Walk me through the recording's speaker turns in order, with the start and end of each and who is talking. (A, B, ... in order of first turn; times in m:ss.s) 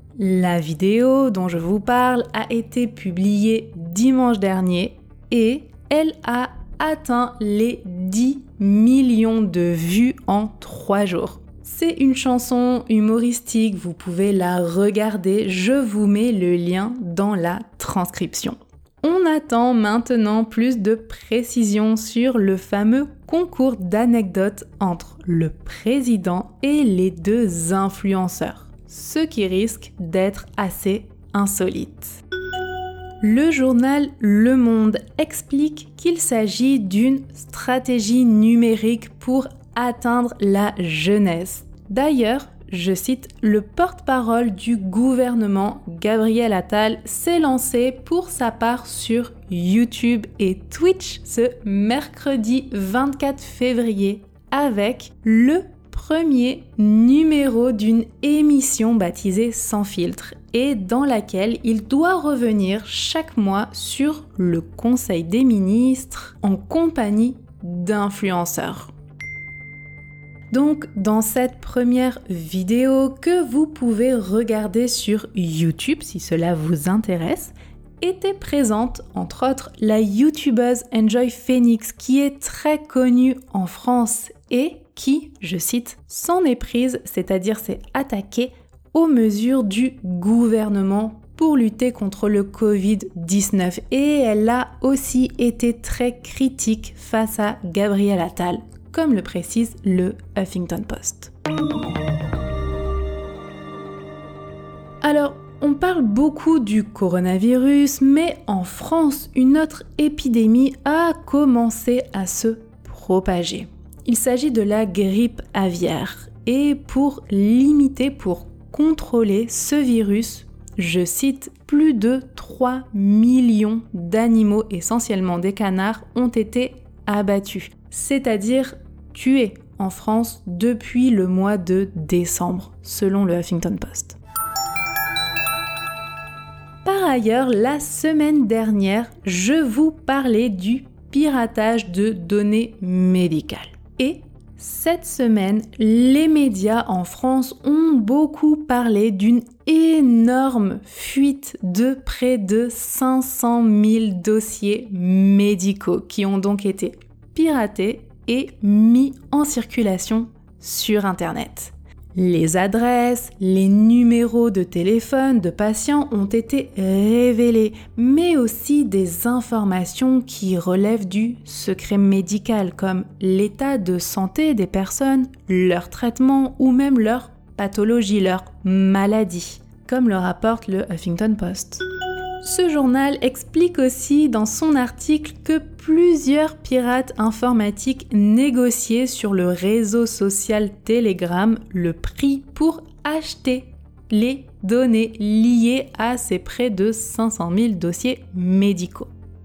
0:00.2-0:32.2 A
0:33.2-1:08.9 A
1:10.5-1:41.3 A
1:45.0-2:14.2 A
2:16.8-3:01.8 A
3:02.4-3:19.1 A